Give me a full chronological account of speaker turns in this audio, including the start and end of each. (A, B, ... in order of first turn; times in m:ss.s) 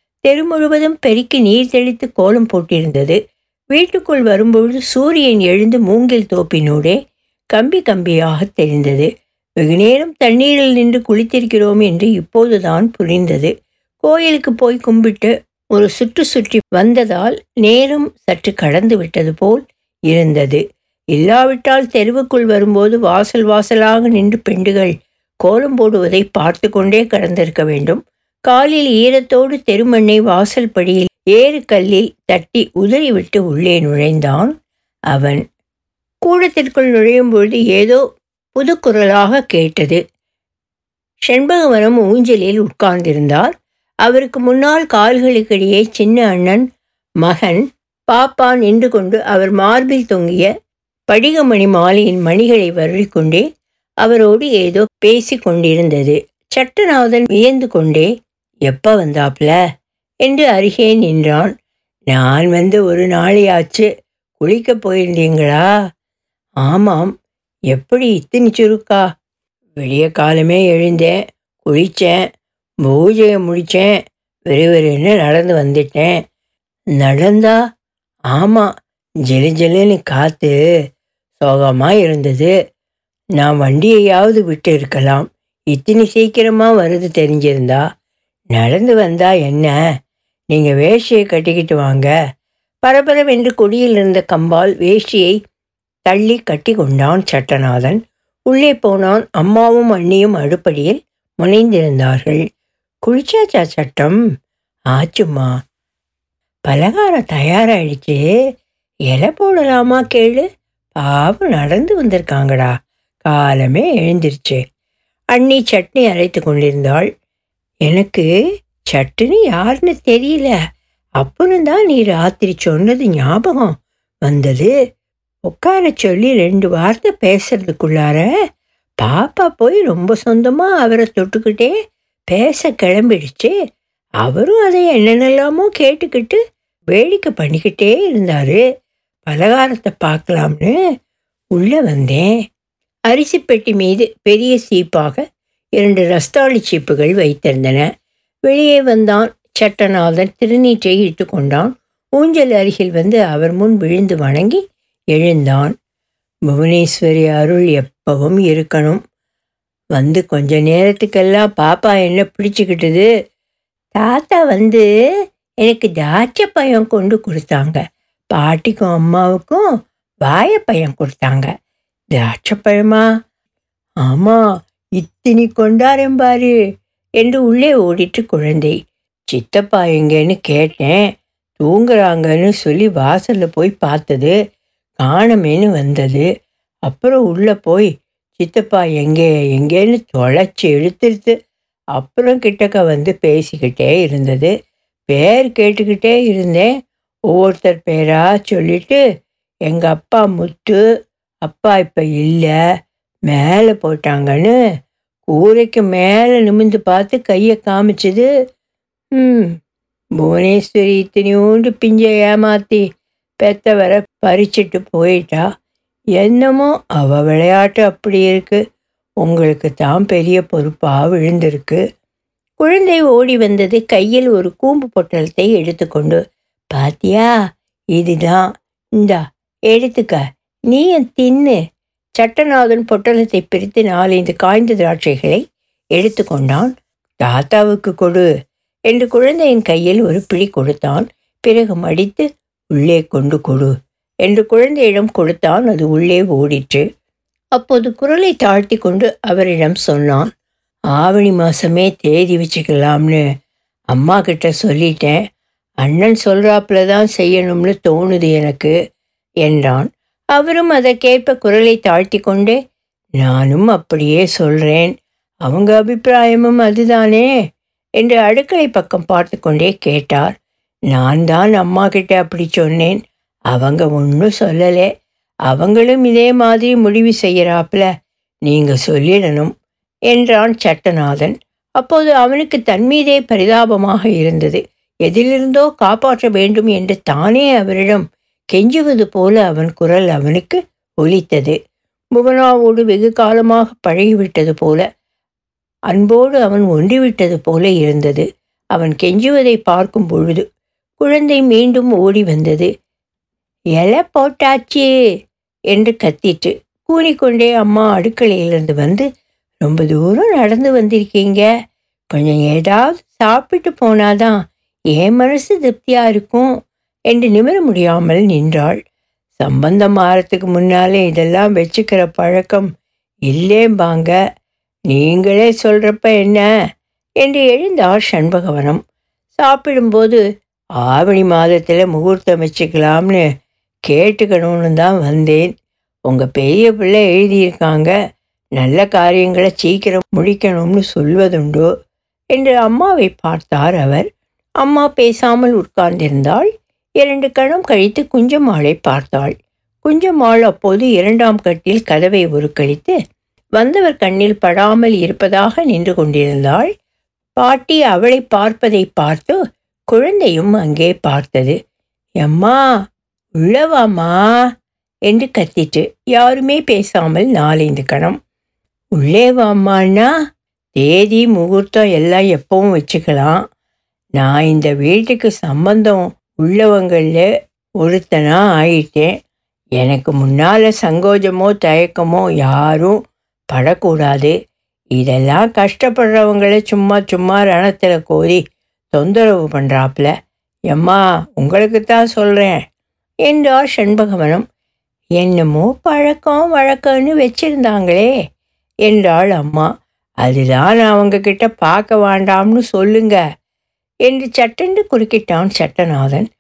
0:00.3-0:03.2 A
0:03.7-0:07.0 A
0:07.5-0:09.1 A
0:09.6-0:20.6 A
0:21.2-0:34.5 A
0:35.1-0:35.4 A
0:36.2-0:38.0 A
0:38.6-0:40.0 A
0:41.3-0:43.5 A
0:44.0-0:46.6 A
0:47.2-0:50.5 A
0:51.1-0:53.4 A
0:54.0-0:58.1 A
0:58.7-0:59.6 A
1:00.3-1:01.5 A
1:02.1-1:03.9 A
1:04.4-1:05.6 A
1:06.6-1:07.1 A
1:07.7-1:09.0 A
1:09.8-1:12.2 A
1:12.9-1:14.0 A
1:14.5-1:16.2 A
1:17.0-1:17.6 A
1:18.3-1:18.7 A
1:19.3-1:20.6 A
1:21.4-1:22.5 A
1:23.4-1:27.8 A
1:28.5-1:29.8 A
1:30.5-1:32.1 A
1:32.8-1:35.4 A
1:36.1-1:42.4 A
1:43.1-1:44.2 A
1:44.9-1:45.5 A
1:46.7-1:48.2 A
1:49.1-1:50.4 A
1:51.0-1:52.7 A
1:53.3-1:54.6 A
1:55.3-1:57.1 A
1:57.9-1:58.3 A
1:58.9-2:00.6 A
2:01.2-2:04.7 A
2:05.5-2:08.3 A
2:09.0-2:11.7 A
2:12.3-2:13.6 A
2:14.2-2:16.4 A
2:16.9-2:18.6 A
2:19.3-2:20.8 A
2:21.6-2:22.3 A
2:23.1-2:25.2 A
2:25.8-2:27.9 A
2:28.5-2:34.6 A
2:35.2-2:35.7 A
2:36.5-2:39.0 A
2:40.0-2:43.1 A
2:44.0-2:44.8 A
2:45.6-2:47.8 A
2:48.3-2:49.6 A
2:50.3-2:51.5 A
2:52.2-2:53.0 A
2:54.0-2:54.4 A
2:55.0-2:56.5 A
2:57.2-2:58.8 A
2:59.3-3:04.4 A
3:05.0-3:06.3 A
3:06.9-3:11.4 A
3:12.0-3:14.5 A
3:15.1-3:16.7 A
3:17.3-3:19.0 A
3:19.7-3:20.8 A
3:21.4-3:22.5 A
3:23.3-3:24.5 A
3:25.3-3:28.3 A
3:29.2-3:29.5 A
3:30.2-3:32.8 A
3:33.4-3:35.4 A
3:36.2-3:38.6 A
3:39.2-3:41.8 A
3:42.6-3:46.2 A
3:46.7-3:47.3 A
3:48.0-3:48.4 A
3:49.0-3:51.6 A
3:52.2-3:55.4 A
3:56.0-3:56.7 A
3:57.2-3:58.3 A
3:58.9-4:03.7 A
4:04.2-4:06.8 A
4:07.6-4:10.3 A
4:11.0-4:13.2 A
4:13.9-4:15.2 A
4:15.8-4:18.7 A
4:19.4-4:22.6 A
4:23.2-4:24.9 A
4:25.5-4:27.3 A
4:28.0-4:30.3 A
4:30.9-4:33.0 A
4:33.5-4:34.9 A
4:35.5-4:37.9 A
4:38.5-4:39.5 A
4:40.1-4:51.6 A
4:52.2-4:54.8 A
4:55.9-5:00.4 A
5:01.0-5:02.7 A
5:03.8-5:04.9 A
5:05.7-5:09.1 A
5:09.6-5:11.5 A
5:12.1-5:14.4 A
5:15.0-5:16.5 A
5:17.1-5:18.8 A
5:19.4-5:22.7 A
5:23.3-5:24.2 A
5:24.9-5:26.4 A
5:27.2-5:28.8 A
5:29.4-5:30.2 A
5:30.8-5:33.2 A
5:33.9-5:35.5 A
5:36.1-5:37.9 A
5:38.6-5:41.7 A
5:42.3-5:44.1 A
5:44.6-5:46.5 A
5:47.0-5:53.0 A
5:53.6-5:56.7 A
5:57.4-5:59.4 A
5:59.9-6:01.6 A
6:02.2-6:02.6 A
6:03.4-6:04.3 A
6:05.1-6:08.2 A
6:09.0-6:10.1 A
6:10.8-6:13.4 A
6:14.2-6:17.3 A
6:17.8-6:19.1 A
6:19.8-6:23.0 A
6:23.5-6:24.4 A
6:25.0-6:28.4 A
6:28.9-6:30.1 A
6:30.7-6:32.6 A
6:33.3-6:34.4 A
6:35.2-6:38.1 A
6:38.9-6:39.7 A
6:40.2-6:43.2 A
6:44.0-6:46.3 A